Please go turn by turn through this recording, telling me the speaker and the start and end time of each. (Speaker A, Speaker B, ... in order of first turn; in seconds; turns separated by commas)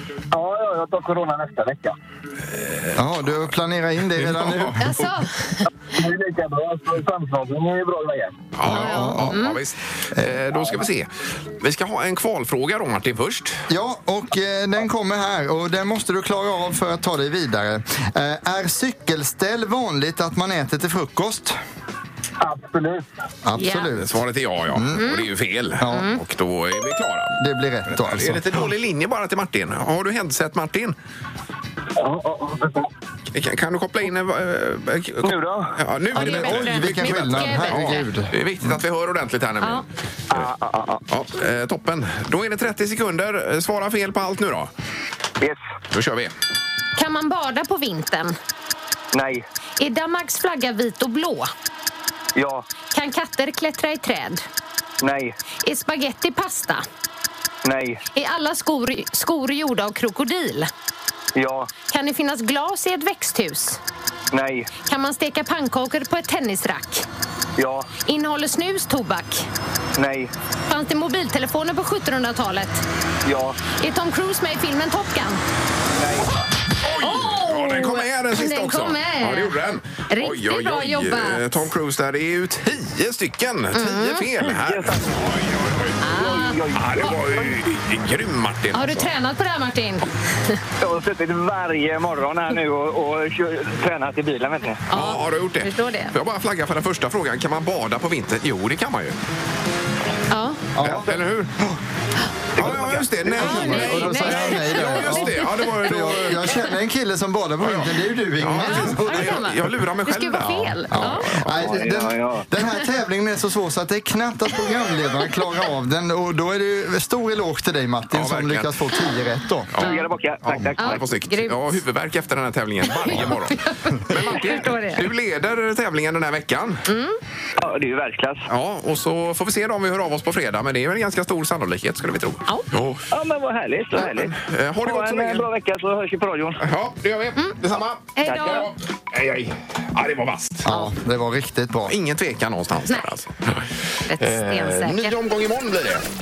Speaker A: 0.3-1.9, Speaker B: 2.5-3.5, Speaker C: 3.0-4.9, Speaker B: 4.2-4.8, Speaker D: 4.8-5.6, Speaker A: 5.9-8.4, Speaker B: 8.6-13.7, Speaker C: 8.7-9.4, Speaker D: 8.7-9.6, Speaker C: 10.1-10.4, Speaker C: 13.7-21.6, Speaker A: 22.4-23.1, Speaker C: 23.4-25.0, Speaker D: 23.6-23.9, Speaker B: 23.9-27.4, Speaker D: 24.9-25.3, Speaker C: 25.8-26.1, Speaker D: 25.9-26.2, Speaker C: 27.4-28.7, Speaker B: 27.9-30.9, Speaker A: 32.0-32.9, Speaker B: 33.3-40.5, Speaker A: 35.2-35.8, Speaker D: 36.1-38.1, Speaker C: 36.1-38.8, Speaker A: 40.3-41.0, Speaker B: 41.1-44.7, Speaker B: 45.9-46.3, Speaker D: 47.0-48.4, Speaker A: 49.1-49.4, Speaker D: 49.8-51.5, Speaker A: 52.3-52.6, Speaker D: 52.9-54.4, Speaker A: 55.0-55.3, Speaker D: 55.6-56.8, Speaker A: 57.6-58.0, Speaker D: 58.1-60.7, Speaker A: 61.3-61.7, Speaker D: 61.9-63.8, Speaker A: 64.3-64.7, Speaker D: 64.8-67.0, Speaker A: 67.6-67.9, Speaker D: 68.0-69.5, Speaker A: 70.0-70.3, Speaker D: 70.7-72.8, Speaker A: 73.2-73.6, Speaker D: 73.8-75.4, Speaker A: 75.9-76.3, Speaker B: 76.8-85.9, Speaker D: 77.0-79.5, Speaker D: 80.1-81.7, Speaker D: 83.7-84.5, Speaker A: 84.6-85.2, Speaker D: 86.0-87.2, Speaker A: 86.1-87.6, Speaker B: 86.7-89.1, Speaker D: 88.7-90.6, Speaker A: 90.8-94.8, Speaker B: 94.9-99.2, Speaker D: 94.9-96.1, Speaker D: 100.3-100.7, Speaker C: 100.8-101.8, Speaker B: 100.8-101.5, Speaker B: 102.6-106.5, Speaker C: 103.2-109.4, Speaker D: 103.4-106.7, Speaker B: 107.6-111.7, Speaker D: 108.6-111.5, Speaker C: 110.9-119.7, Speaker A: 111.5-112.5, Speaker B: 118.1-118.8, Speaker B: 119.7-126.8, Speaker A: 119.8-121.1, Speaker D: 119.8-120.1, Speaker D: 120.8-121.8, Speaker D: 122.8-125.1, Speaker D: 126.9-127.2, Speaker A: 127.6-128.5, Speaker B: 128.5-133.1, Speaker A: 133.1-136.6, Speaker B: 134.0-135.5, Speaker B: 136.6-140.7, Speaker D: 138.2-138.7, Speaker A: 138.2-138.7, Speaker C: 140.6-141.9, Speaker B: 141.9-146.0, Speaker D: 142.9-143.2, Speaker D: 144.0-145.1